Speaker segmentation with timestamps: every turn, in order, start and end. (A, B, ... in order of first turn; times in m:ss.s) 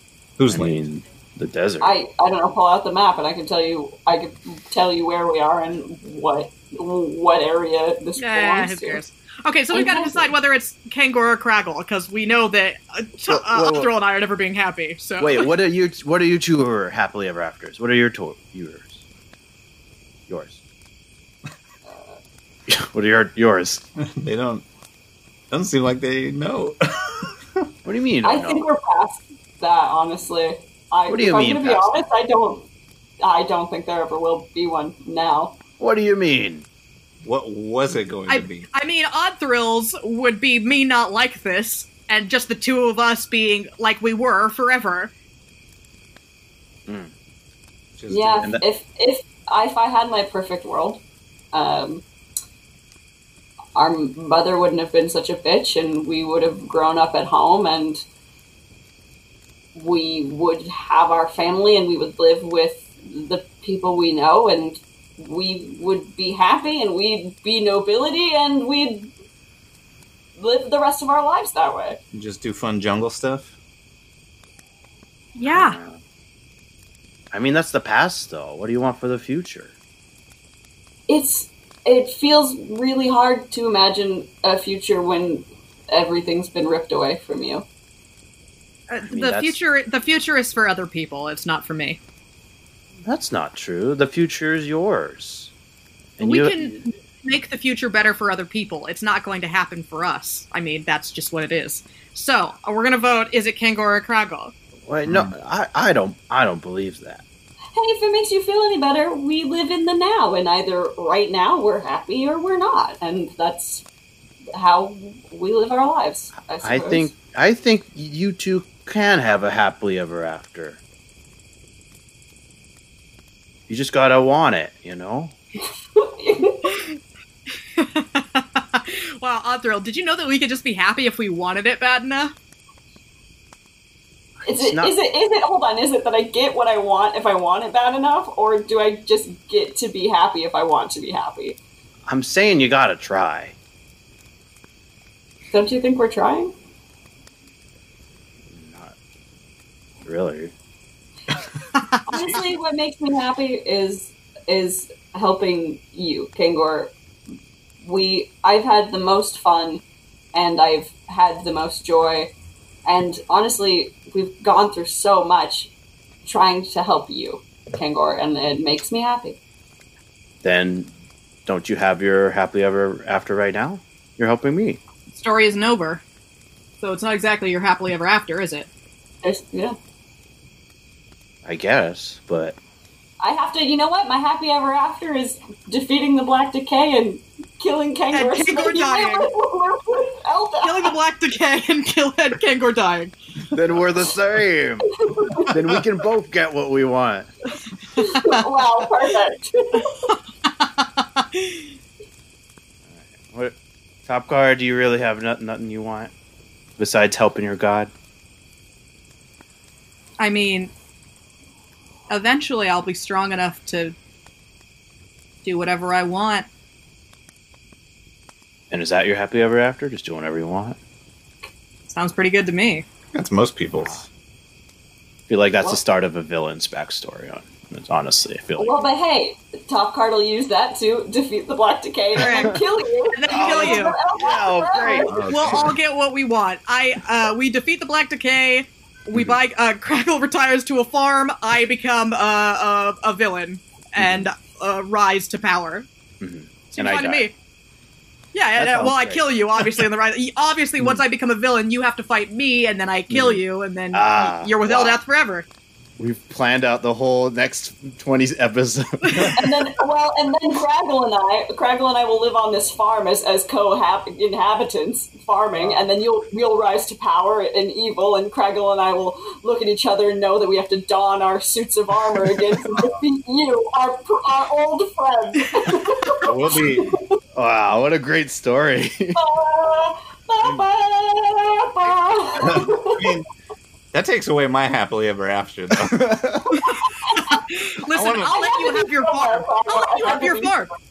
0:00.4-0:00.8 A
0:00.5-0:02.0 B
0:01.8-0:09.0 C
0:08.2-0:15.5 D
0:09.7-0:10.2 C
0:13.2-0:13.9 B
0:15.2-0:19.0 B
0:20.3-0:20.6 B
0:21.9-0:22.2 C
0:22.7-0:23.8 B
0:24.0-0:24.6 A
0:25.5-0:27.6 A
0:27.8-0:28.6 B
0:28.2-0:32.7 C
0:31.1-0:31.9 B
0:33.2-0:35.6 C
0:35.8-0:36.6 B
0:37.2-0:38.7 A
0:38.3-0:45.1 D
0:46.9-0:47.1 B
0:48.0-0:48.6 A
0:48.1-0:52.0 C
0:53.7-0:58.0 C
0:59.7-1:09.1 C
1:10.4-1:12.0 C
1:12.1-1:13.5 A
1:15.4-1:15.8 D
1:15.5-1:16.0 B
1:17.3-1:19.7 B
1:21.1-1:27.6 C
1:28.9-1:32.0 D
1:29.0-1:29.6 B
1:33.0-1:35.5 B
1:36.2-1:36.8 B
1:36.2-1:44.5 D
1:44.8-1:47.2 B
1:45.0-1:45.3 A
1:47.7-1:53.8 C
1:54.5-1:57.1 C
1:56.6-2:00.8 B
2:03.7-2:05.4 B
2:06.0-2:06.7 C
2:07.8-2:12.3 D
2:14.4-2:14.9 B
2:14.5-2:21.6 C
2:22.1-2:23.5 B
2:25.5-2:26.5 C
2:28.4-2:29.0 B
2:30.0-2:30.5 B
2:31.7-2:32.0 D
2:32.1-2:36.9 C
2:37.8-2:42.3 C
2:42.9-2:45.7 C
2:46.2-2:49.4 C
2:50.4-2:50.9 B
2:51.4-2:54.8 B
2:55.1-2:56.0 D
2:56.8-2:58.7 D
2:59.2-2:59.8 C
3:01.4-3:02.6 B
3:03.2-3:10.9 C
3:08.1-3:09.3 D
3:10.6-3:13.1 D
3:13.5-3:14.9 B
3:15.0-3:15.5 C
3:15.4-3:17.3 B
3:17.9-3:18.5 D
3:18.0-3:20.0 C
3:20.1-3:21.6 D
3:22.9-3:26.1 B
3:26.8-3:27.9 B
3:30.2-3:30.7 D
3:32.1-3:33.9 D
3:35.4-3:36.5 D
3:38.7-3:40.8 B
3:41.9-3:42.8 D
3:43.1-3:44.1 A
3:45.3-3:48.8 B
3:48.6-3:55.3 C
3:52.2-3:52.6 D
3:52.2-3:52.6 B
3:53.1-3:54.0 D
3:53.3-3:55.7 B
3:55.1-3:55.7 A
3:55.2-4:05.9 D
4:04.0-4:04.3 B
4:06.2-4:07.3 B
4:06.7-4:07.3 D
4:08.3-4:15.4 D
4:08.6-4:09.8 B
4:13.1-4:15.0 B
4:16.0-4:19.4 B
4:19.0-4:19.4 D
4:19.4-4:37.2 C
4:25.5-4:25.8 B
4:32.7-4:32.9 A
4:36.2-4:37.0 A
4:37.3-4:39.2 B
4:39.2-4:43.1 C
4:42.4-4:43.2 A
4:43.9-4:46.1 A
4:45.7-4:46.5 B
4:46.5-4:50.7 D
4:47.0-4:47.4 C
4:47.9-4:48.5 A
4:48.3-4:50.6 C